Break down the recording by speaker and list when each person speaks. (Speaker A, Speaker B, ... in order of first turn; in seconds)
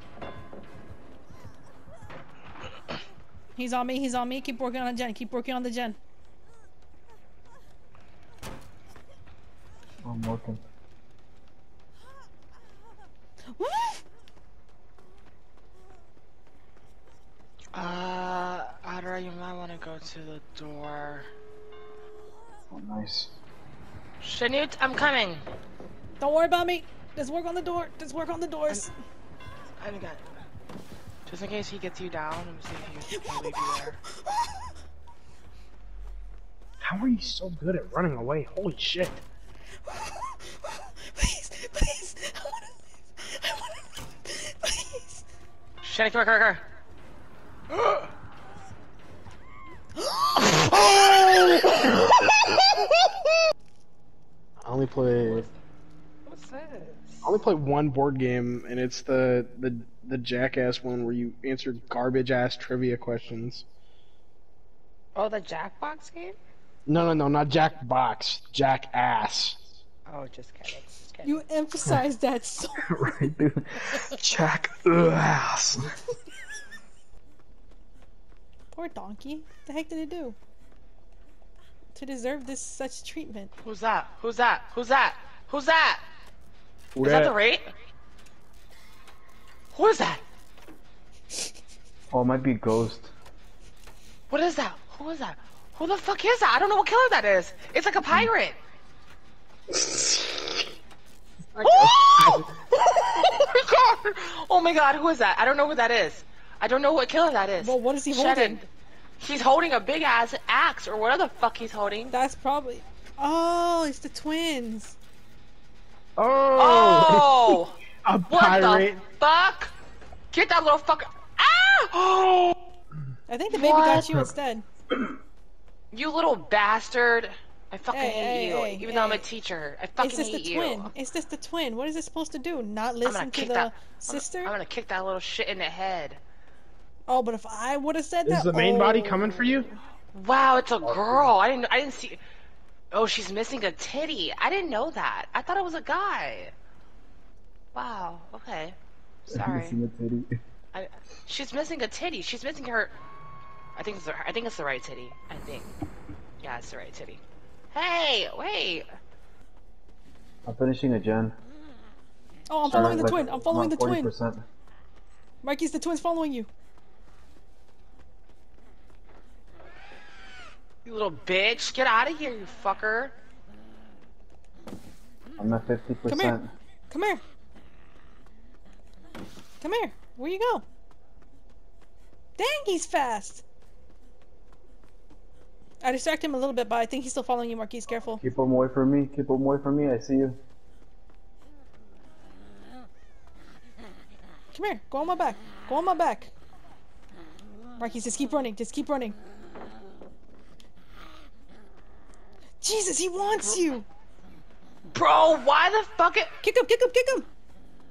Speaker A: 3.5-6.0, 13.5-14.0, 26.2-28.9, 33.1-34.6, 39.9-45.2, 71.2-73.1, 78.7-80.4, 81.9-83.5, 107.6-108.6, 112.1-115.0, 123.3-124.7, 127.9-129.2, 130.0-134.5, 137.1-139.4, 162.5-164.1, 165.4-166.5, 176.1-176.4, 176.9-177.2, 179.6-180.6, 182.4-183.4, 185.8-188.2, 194.5-196.3, 197.8-199.2, 202.6-203.9, 206.4-207.3
Speaker B: 10.0-10.6, 22.7-23.3, 72.8-75.9, 87.0-87.3, 92.1-93.1, 123.9-124.3, 140.8-141.3, 149.3-150.4, 160.4-161.3, 162.6-164.4, 175.4-176.5, 188.2-190.4
Speaker C: 17.7-21.3, 24.2-25.4, 29.8-30.2, 31.2-34.0, 45.8-46.6, 50.8-51.8, 55.2-55.5, 56.2-57.3, 65.1-66.4, 70.1-71.4, 83.6-86.0, 87.0-87.6, 89.7-90.2, 94.3-98.6, 101.6-108.7, 109.2-112.1, 116.6-117.8, 118.3-119.7, 120.3-122.5, 123.5-124.1, 125.9-130.9, 133.1-136.2, 140.1-142.2, 142.9-146.5, 147.7-148.8, 149.3-149.8, 150.7-152.9, 153.8-155.7, 156.4-157.2, 157.7-158.9, 170.8-173.1, 204.9-206.3
Speaker D: 36.8-39.2, 50.7-51.8, 54.6-55.5, 57.2-63.6, 66.9-69.6, 116.2-119.0, 138.3-139.7